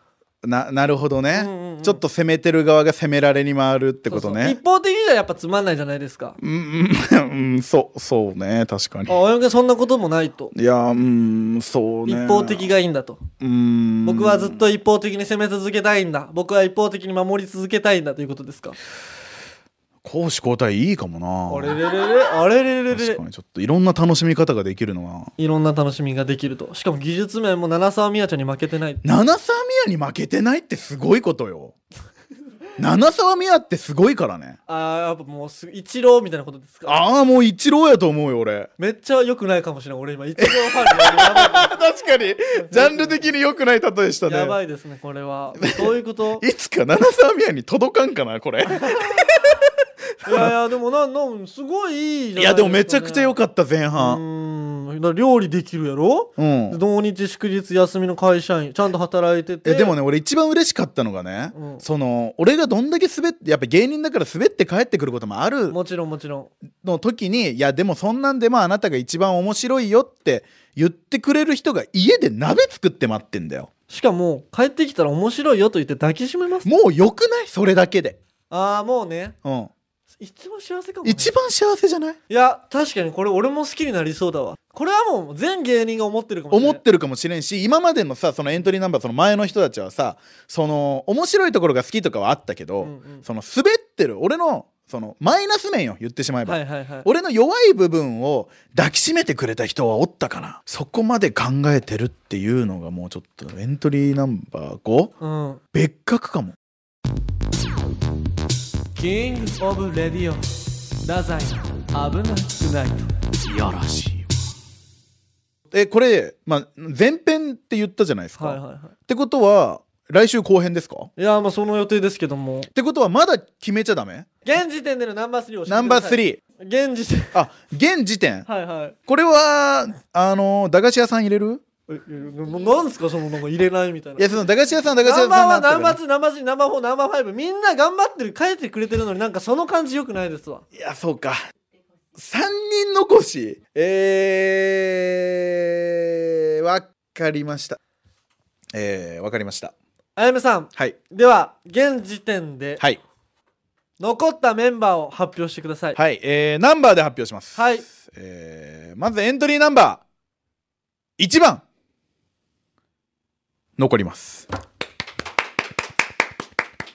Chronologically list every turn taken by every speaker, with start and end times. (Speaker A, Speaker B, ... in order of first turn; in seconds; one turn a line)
Speaker A: 0.4-4.6
Speaker B: 1.3-2.0
Speaker B: 4.1-6.4
Speaker A: 6.4-9.2
Speaker B: 9.1-10.5
Speaker A: 10.5-12.7
Speaker B: 12.1-13.2
Speaker A: 13.4-14.6
Speaker B: 14.0-18.8
Speaker A: 20.0-21.8
Speaker B: 21.5-23.2
Speaker A: 22.9-25.3
Speaker B: 25.4-29.0
Speaker A: 29.0-31.7
Speaker A: 32.8-34.6
Speaker B: 34.7-37.1
Speaker A: 36.9-38.7
Speaker B: 38.8-41.7
Speaker A: 40.4-44.6
Speaker B: 42.6-43.3
Speaker B: 44.2-46.4
Speaker A: 45.8-49.7
Speaker B: 48.8-49.3
Speaker A: 50.2-50.5
Speaker B: 50.2-53.4
Speaker A: 52.4-54.2
Speaker B: 53.9-60.0
Speaker A: 56.4-56.8
Speaker A: 59.6-65.8
Speaker B: 61.5-61.8
Speaker B: 65.7-66.5
Speaker A: 66.8-73.7
Speaker B: 73.9-76.7
Speaker A: 76.6-78.2
Speaker B: 78.5-79.3
Speaker A: 79.4-79.7
Speaker B: 80.2-81.3
Speaker A: 81.0-82.2
Speaker B: 82.3-86.8
Speaker A: 86.5-105.1
Speaker B: 92.8-93.2
Speaker B: 96.5-97.1
Speaker B: 105.2-105.6
Speaker A: 105.7-106.5
Speaker B: 108.9-113.1
Speaker A: 113.4-114.3
Speaker A: 115.7-121.1
Speaker B: 118.4-118.9
Speaker B: 121.2-122.7
Speaker A: 122.7-124.3
Speaker B: 124.4-127.4
Speaker A: 125.7-126.4
Speaker A: 127.3-128.5
Speaker B: 128.5-128.9
Speaker A: 129.1-131.6
Speaker B: 131.9-134.3
Speaker A: 134.2-136.0
Speaker B: 135.0-140.6
Speaker A: 140.7-141.4
Speaker A: 142.2-147.8
Speaker A: 148.7-149.7
Speaker B: 150.2-152.8
Speaker B: 154.0-156.0
Speaker A: 155.9-160.0
Speaker B: 157.6-157.8
Speaker A: 161.2-161.6
Speaker A: 163.8-164.4